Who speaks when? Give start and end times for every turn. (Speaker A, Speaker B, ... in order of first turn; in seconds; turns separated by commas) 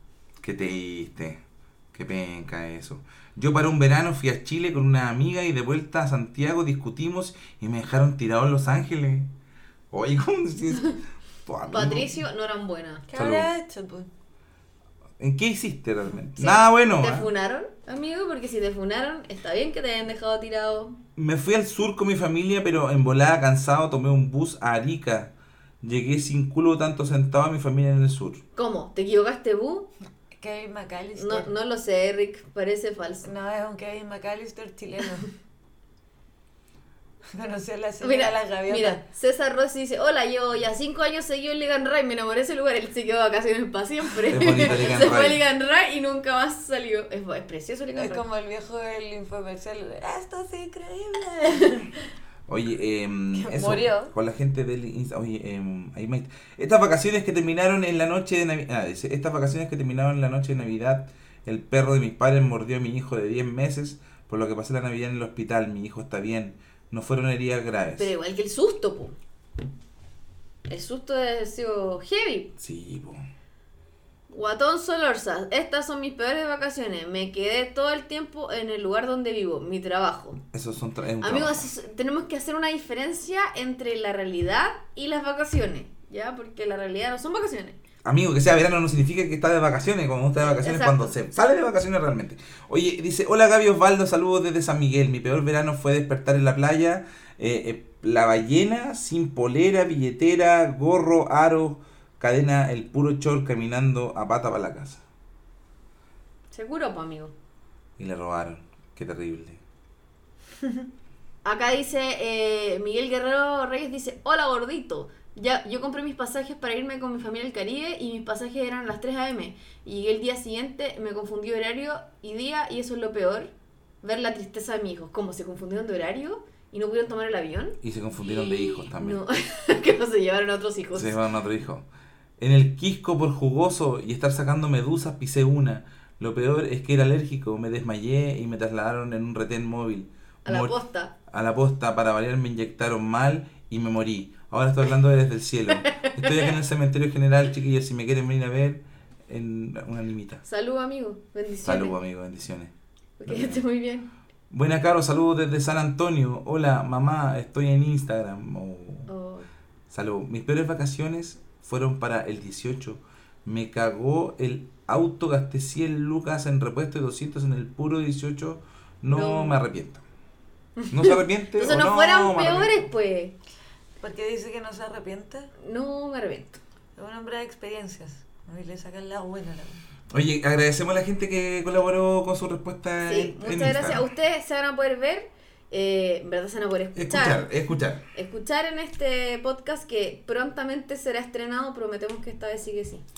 Speaker A: 0.4-1.4, Speaker A: 1.9-9.3, Speaker A: 9.9-12.2, Speaker B: 11.7-13.1, Speaker C: 13.1-14.1, Speaker A: 13.1-13.5, Speaker A: 15.2-17.3, Speaker B: 16.4-21.0, Speaker A: 21.1-28.4, Speaker B: 28.6-29.9, Speaker C: 30.4-31.5, Speaker B: 31.1-33.3, Speaker C: 33.2-35.3, Speaker C: 37.3-39.0, Speaker B: 38.0-48.2, Speaker A: 44.3-45.4, Speaker C: 48.0-51.9, Speaker A: 52.5-68.1, Speaker C: 53.3-54.1, Speaker B: 68.0-69.2, Speaker B: 70.7-72.5, Speaker A: 72.6-73.2, Speaker B: 74.3-80.4, Speaker A: 80.5-81.7, Speaker B: 81.2-87.8, Speaker A: 88.0-105.0, Speaker B: 90.4-91.2, Speaker B: 106.5-107.3, Speaker A: 108.0-109.6, Speaker B: 111.4-131.2, Speaker A: 127.8-129.2, Speaker A: 130.9-131.8, Speaker A: 132.4-140.8, Speaker B: 140.4-141.1, Speaker A: 141.3-150.4, Speaker B: 145.9-146.5, Speaker B: 150.4-151.9, Speaker A: 151.6-152.7, Speaker B: 153.2-154.1, Speaker A: 153.2-153.6, Speaker A: 154.5-159.1, Speaker B: 159.1-159.5, Speaker A: 159.9-170.0, Speaker B: 169.1-169.6, Speaker B: 170.8-173.3, Speaker A: 170.9-172.9, Speaker C: 174.0-175.5, Speaker B: 175.6-176.6, Speaker C: 176.9-179.8, Speaker A: 180.1-184.1, Speaker B: 183.0-187.4, Speaker A: 186.9-188.0, Speaker B: 188.1-193.0